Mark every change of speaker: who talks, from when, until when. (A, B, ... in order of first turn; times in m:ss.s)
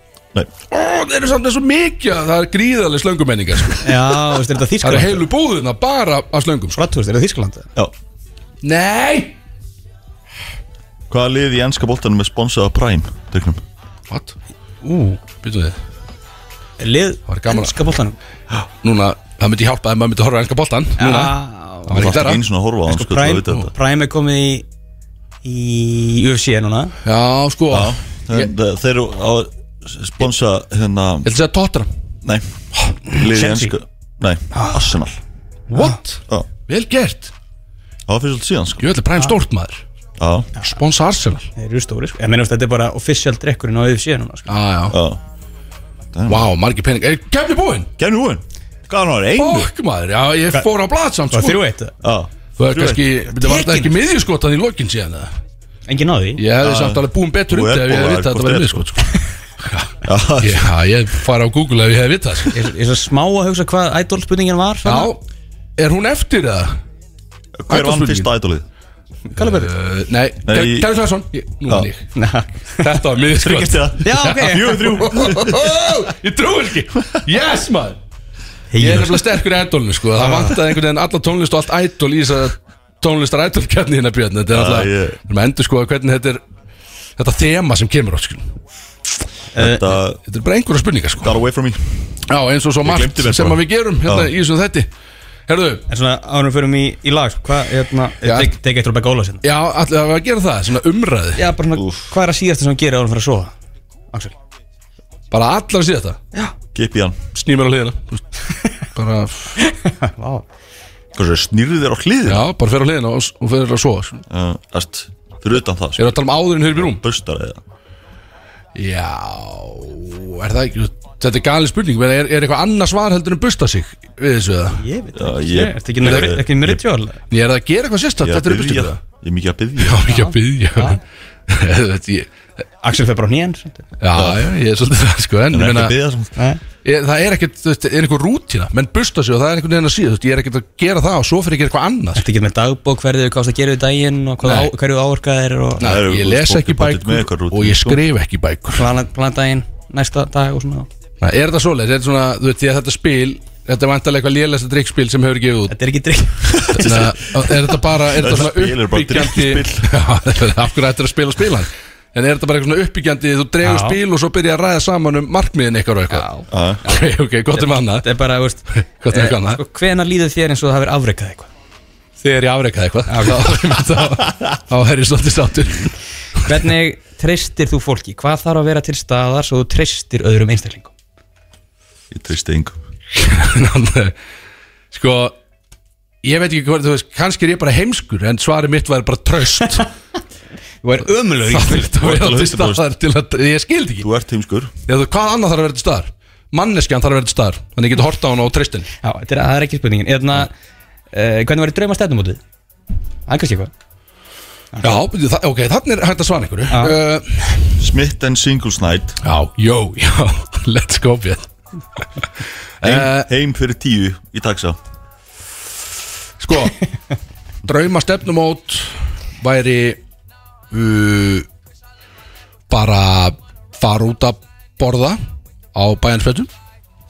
0:00.7-0:06.8 A
0:03.8-0:05.2 B
0:06.8-0:07.7 B
0:08.6-0:09.3 A
0:11.1-0:13.6 C
0:14.1-0:14.3 A
0:14.8-0:15.2 B
0:15.4-0:15.8 A
0:16.8-0:18.2 B
0:17.3-0:17.9 A
0:18.6-0:22.4 A
0:21.0-0:22.1 B
0:21.9-0:23.7 C
0:22.9-0:24.6 B
0:25.4-0:26.9 B
0:27.0-0:28.5 A
0:27.7-0:31.3 C
0:31.2-0:31.9 A
0:32.2-0:32.5 C
0:33.0-0:35.2 C
0:33.2-0:33.7 B
0:34.5-0:34.8 B
0:35.7-0:37.3 A
0:38.1-0:38.9 C
0:38.8-0:39.8 A
0:40.2-0:40.5 C
0:40.6-0:41.5 A
0:41.6-0:44.5 B
0:44.5-0:45.0 A
0:44.9-0:45.2 C
0:46.1-0:46.5 C
0:46.3-0:47.9 A
0:48.0-0:49.7 C
0:49.4-0:51.6 A
0:51.3-0:51.9 B
0:52.0-0:53.0 C
0:52.6-0:55.3 A
0:53.3-0:53.9 B
0:55.9-0:56.4 B
0:56.4-1:02.6 A
0:56.6-0:58.9 C
1:00.0-1:00.7 C
1:02.5-1:05.1 B
1:04.8-1:05.2 A
1:05.8-1:06.7 A
1:07.6-1:08.6 C
1:07.7-1:08.3 A
1:09.3-1:09.7 B
1:09.4-1:12.1 A
1:10.4-1:10.9 C
1:12.1-1:12.8 B
1:12.8-1:18.0 A
1:13.3-1:15.6 C
1:14.0-1:15.6 B
1:18.7-1:19.2 B
1:18.8-1:26.4 A
1:20.2-1:20.6 B
1:24.5-1:25.2 C
1:27.2-1:28.5 A
1:29.5-1:29.8 B
1:29.6-1:30.2 C
1:30.2-1:31.3 A
1:31.2-1:32.2 C
1:32.3-1:34.9 A
1:32.8-1:34.3 C
1:35.5-1:35.8 A
1:35.9-1:39.4 B
1:38.2-1:38.5 A
1:39.4-1:41.5 A
1:41.4-1:43.5 B
1:41.7-1:42.1 C
1:45.3-1:46.2 A
1:46.7-1:47.2 C
1:47.3-1:49.6 A
1:49.6-1:50.4 B
1:51.1-1:52.5 C
1:52.2-1:54.2 A
1:54.3-1:57.6 C
1:56.0-1:57.0 A
1:58.7-2:04.8 A
2:04.8-2:07.2 B
2:05.1-2:06.8 C
2:07.3-2:09.0 A
2:08.2-2:10.1 C
2:09.8-2:12.3 A
2:10.1-2:11.0 B
2:12.8-2:13.8 B
2:14.0-2:16.0 A
2:14.1-2:14.4 C
2:15.5-2:16.3 C
2:16.8-2:22.2 A
2:22.1-2:25.9 B
2:24.4-2:24.7 A
2:25.8-2:28.0 C
2:25.8-2:28.9 A
2:28.7-2:30.9 B
2:31.2-2:35.8 A
2:35.7-2:37.0 B
2:36.5-2:37.5 C
2:36.7-2:46.3 A
2:38.0-2:40.0 C
2:43.6-2:44.0 B
2:46.1-2:46.4 B
2:46.5-2:46.8 C
2:46.8-2:48.1 A
2:47.5-2:51.5 B
2:49.0-2:49.6 A
2:52.2-2:55.9 A
2:53.1-2:53.6 B
2:56.4-3:00.9 B
3:02.1-3:02.8 C
3:03.1-3:04.1 A
3:04.9-3:05.3 A
3:06.2-3:09.9 A
3:10.8-3:11.9 B
3:11.4-3:14.1 A
3:11.9-3:12.8 C
3:14.0-3:14.7 C
3:14.8-3:18.9 A
3:19.0-3:20.5 B
3:21.1-3:22.4 B
3:23.3-3:23.7 B
3:24.7-3:25.0 B
3:24.8-3:27.7 A
3:26.7-3:27.0 B
3:27.8-3:29.2 C
3:29.2-3:32.2 A
3:32.8-3:33.3 A
3:32.8-3:34.8 C
3:36.4-3:36.8 A
3:37.6-3:40.0 A
3:40.7-3:41.4 A
3:42.7-3:45.2 A
3:45.7-3:46.5 A